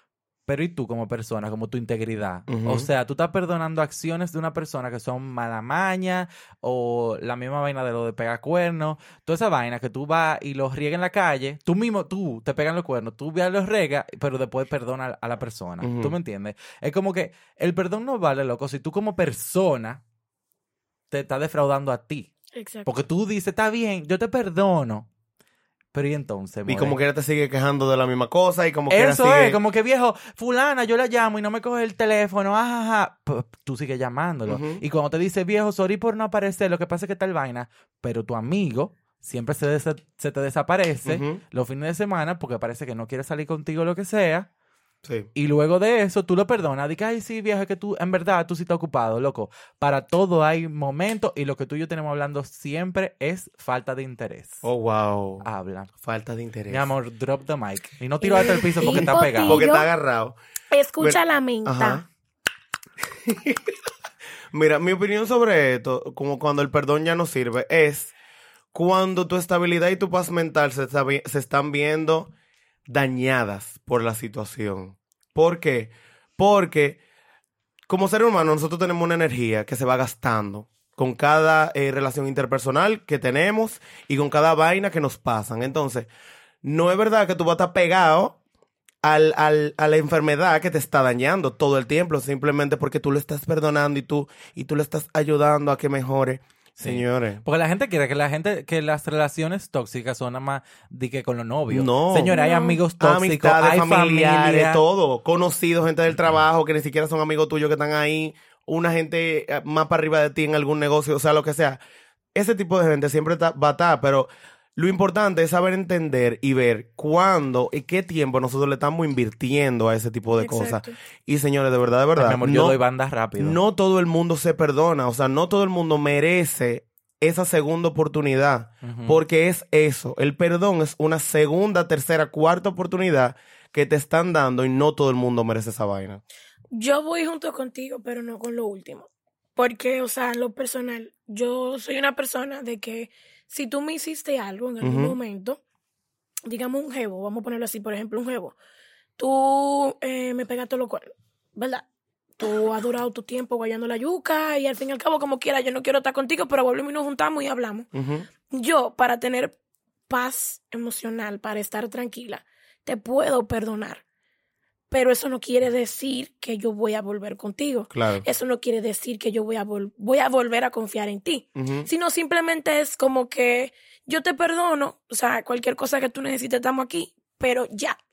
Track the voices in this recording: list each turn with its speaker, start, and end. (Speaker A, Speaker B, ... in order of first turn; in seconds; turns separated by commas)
Speaker A: 0.5-20.0, Speaker B: 2.5-2.9, Speaker B: 15.8-16.1, Speaker A: 21.1-22.3, Speaker C: 22.5-22.9, Speaker A: 22.9-25.1, Speaker A: 25.9-27.0, Speaker B: 26.7-29.6, Speaker A: 28.9-44.5, Speaker B: 34.5-34.8, Speaker B: 41.0-41.4, Speaker A: 45.4-54.6, Speaker B: 54.6-55.5, Speaker A: 55.4-55.9, Speaker B: 56.0-56.9, Speaker A: 56.7-59.6, Speaker C: 58.2-59.9, Speaker B: 58.8-60.4, Speaker C: 60.7-62.0, Speaker B: 61.0-62.0, Speaker B: 63.1-63.8, Speaker B: 64.5-68.1, Speaker B: 68.7-72.3, Speaker B: 72.9-77.0, Speaker B: 77.9-86.1, Speaker B: 86.6-88.4, Speaker B: 89.0-97.4, Speaker A: 96.8-104.8, Speaker B: 101.7-102.4, Speaker C: 102.3-102.8, Speaker B: 103.0-111.8, Speaker B: 112.3-122.8, Speaker C: 120.4-120.9, Speaker A: 122.2-123.6, Speaker B: 123.4-136.2, Speaker A: 128.8-129.2, Speaker C: 136.7-145.6, Speaker B: 144.8-145.2, Speaker C: 146.4-148.6, Speaker C: 149.2-151.8, Speaker C: 152.4-157.9, Speaker B: 157.9-158.3, Speaker C: 158.5-159.5, Speaker C: 160.1-164.0, Speaker C: 164.9-178.0, Speaker B: 167.9-168.2, Speaker B: 171.6-171.9